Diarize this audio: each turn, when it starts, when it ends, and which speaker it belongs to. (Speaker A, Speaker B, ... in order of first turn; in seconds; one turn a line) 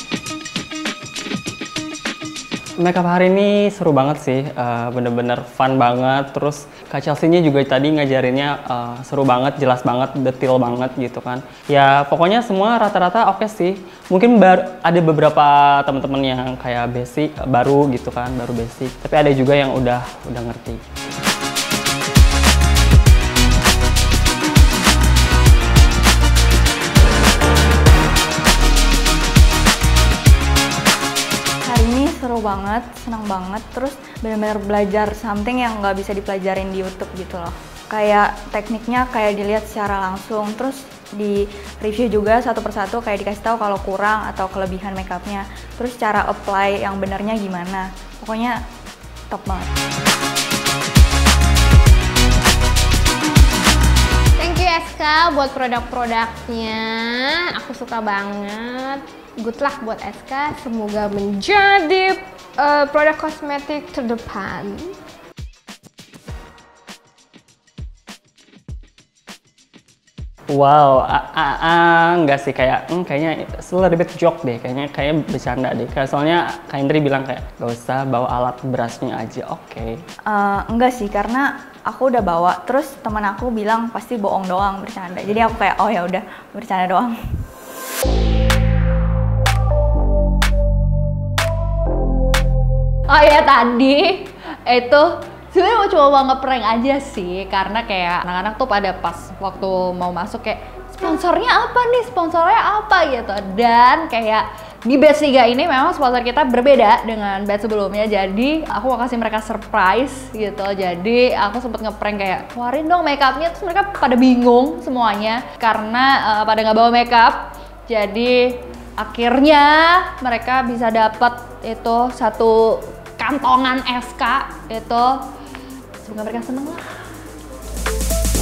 Speaker A: 2.8-20.9
Speaker B: 31.6-48.6
Speaker B: 49.3-49.7
Speaker C: 54.4-65.0
Speaker A: 70.5-80.0
Speaker B: 80.3-87.2
Speaker D: 93.1-125.2
Speaker D: 126.0-126.9